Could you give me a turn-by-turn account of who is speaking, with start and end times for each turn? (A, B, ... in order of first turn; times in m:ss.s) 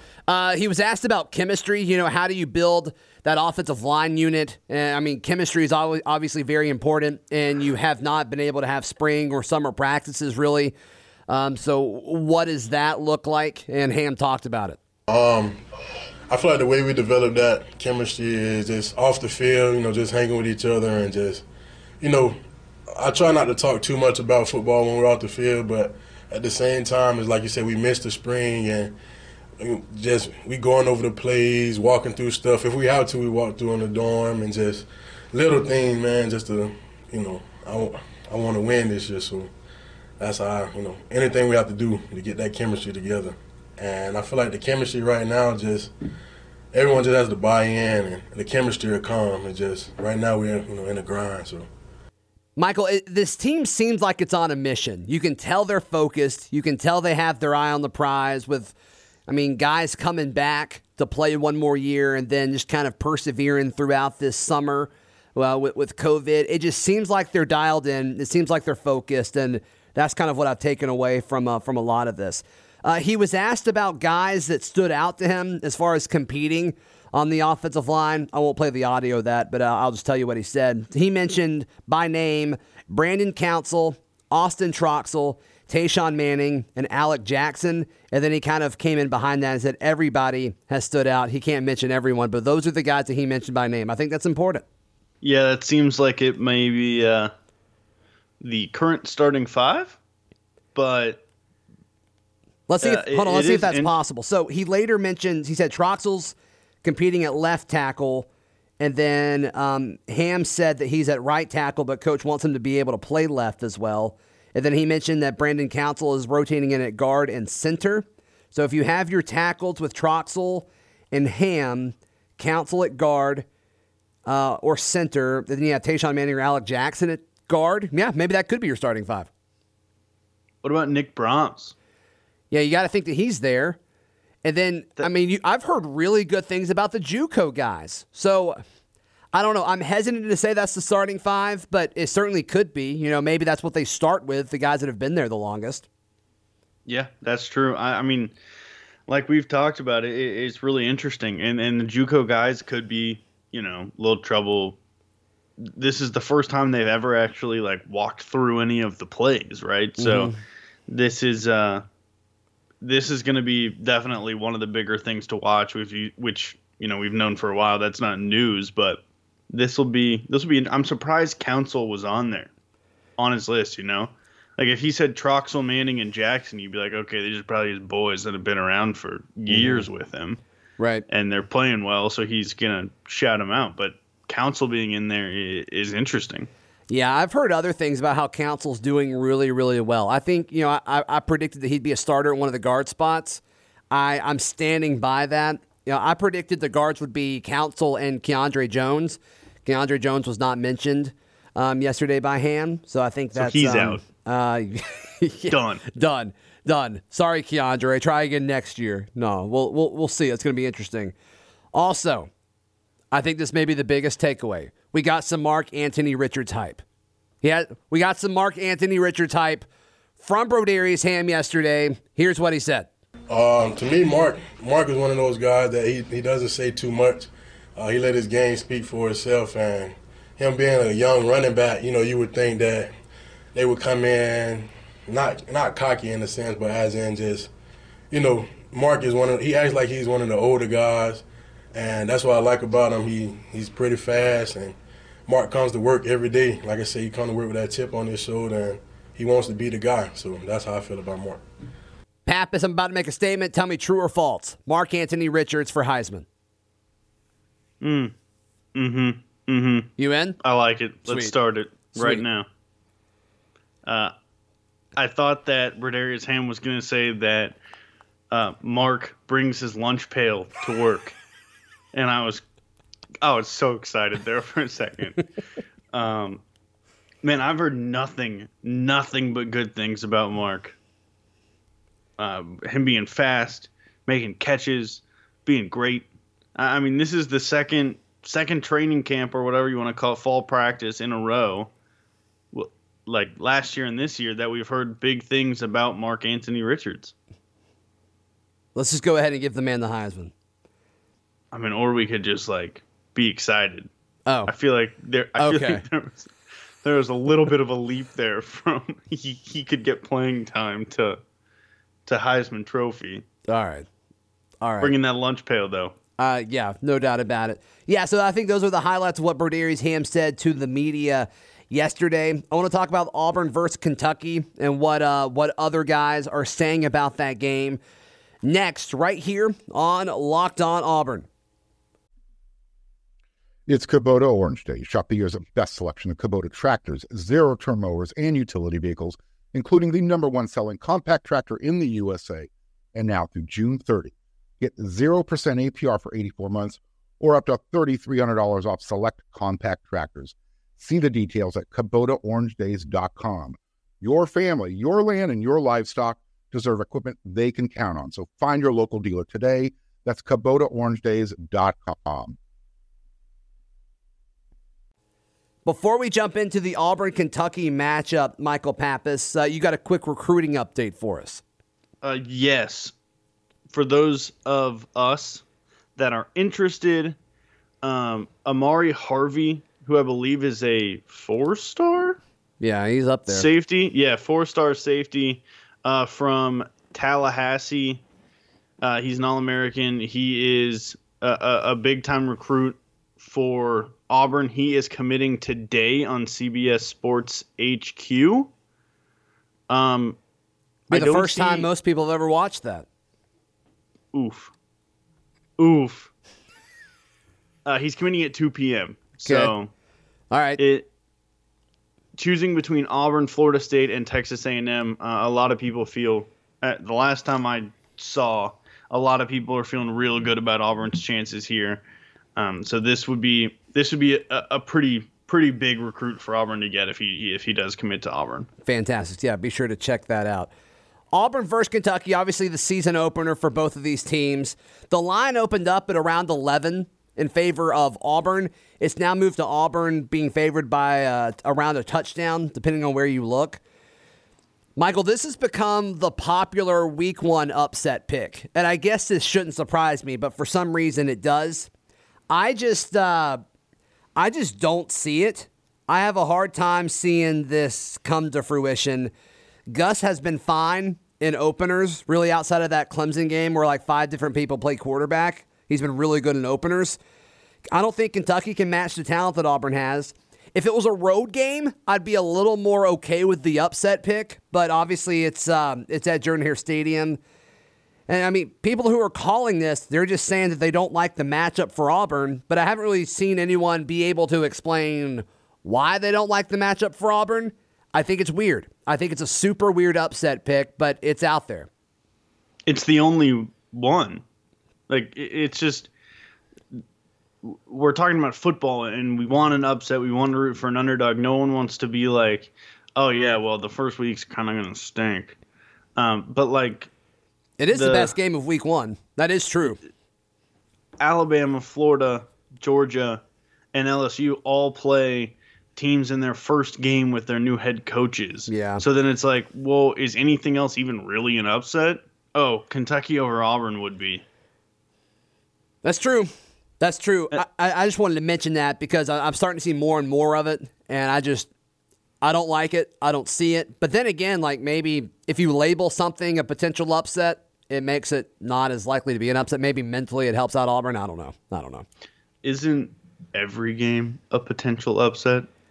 0:00.3-0:10.7 A
0:11.3-0:14.8 A
0:15.1-0:15.6 B
0:16.3-0:21.4 B
0:22.0-0:22.4 B
0:22.9-0:29.0 B
0:29.6-0:39.5 B
0:40.2-0:45.9 B
0:46.7-0:51.7 B
0:52.6-0:58.7 A
0:59.3-1:34.6 A
1:35.2-1:37.3 C
1:38.4-1:40.0 C
1:40.8-1:41.2 C
1:42.7-1:48.3 A
1:42.8-1:43.9 C
1:48.8-2:03.4 A
2:04.3-2:09.3 A
2:10.6-2:11.8 C
2:12.5-2:13.8 A
2:14.4-2:18.6 A
2:19.3-2:25.9 A
2:26.9-2:28.3 C
2:29.1-2:34.8 C
2:35.6-2:40.3 C
2:40.0-2:40.4 A
2:40.9-2:41.8 C
2:42.8-2:52.5 C
2:53.2-3:00.4 C
2:59.5-2:59.9 A
3:00.8-3:01.0 A
3:01.1-3:06.5 C
3:06.9-3:31.1 A
3:23.4-3:24.0 C
3:25.5-3:25.8 C
3:31.7-3:32.3 A
3:33.1-3:36.8 A
3:37.4-3:39.7 A
3:40.2-3:42.9 A
3:43.3-3:52.9 B
3:53.6-3:57.5 B
3:58.1-4:04.8 B
4:05.3-4:11.4 B
4:12.3-4:16.3 A
4:17.8-4:18.1 C
4:18.8-4:22.5 C
4:20.0-4:20.4 A
4:21.1-4:21.3 A
4:21.9-4:22.2 A
4:23.8-4:24.1 C
4:25.0-4:27.6 C
4:28.3-4:31.2 C
4:31.9-4:32.4 C
4:33.2-4:35.2 C
4:35.9-4:36.4 C
4:37.2-4:40.8 C
4:42.2-4:51.7 C
4:52.5-4:57.1 C
4:58.8-5:00.3 A
5:01.5-5:03.9 C
5:04.3-5:04.5 A
5:04.5-5:06.3 C
5:05.4-5:05.8 A
5:06.8-5:11.2 C
5:12.1-5:13.2 C
5:13.5-5:13.9 A
5:14.6-5:14.9 A
5:14.8-5:16.0 C
5:16.2-5:27.8 A
5:28.4-5:31.3 A
5:33.7-6:02.4 D
6:05.6-6:11.4 A
6:12.0-6:12.9 C
6:13.7-6:15.4 C
6:16.0-6:17.2 C
6:17.8-6:22.2 C
6:22.6-6:23.5 A
6:23.3-6:28.0 C
6:28.8-6:38.5 C
6:39.7-6:40.2 C
6:40.9-6:41.7 C
6:40.9-6:42.9 A
6:44.1-6:44.5 C
6:45.6-6:46.1 C
6:47.6-6:49.7 C
6:49.2-6:49.6 A
6:50.3-6:50.6 A
6:50.6-6:50.9 C
6:52.2-7:01.8 C
7:02.4-7:08.5 C
7:08.6-7:10.5 A
7:11.1-7:23.6 A
7:24.8-7:31.7 A
7:32.3-7:33.4 A
7:34.2-7:39.1 A
7:39.7-7:47.0 A
7:47.7-7:57.2 A
7:58.1-8:11.7 A
8:12.7-8:14.2 C
8:14.9-8:15.9 C
8:17.4-8:25.4 C
8:26.0-8:26.9 C
8:27.6-8:29.8 A
8:27.7-8:28.1 C
8:31.0-8:33.2 C
8:33.7-8:44.2 C
8:38.5-8:38.8 A
8:45.8-8:51.5 A
8:52.2-9:01.8 A
9:02.4-9:05.5 C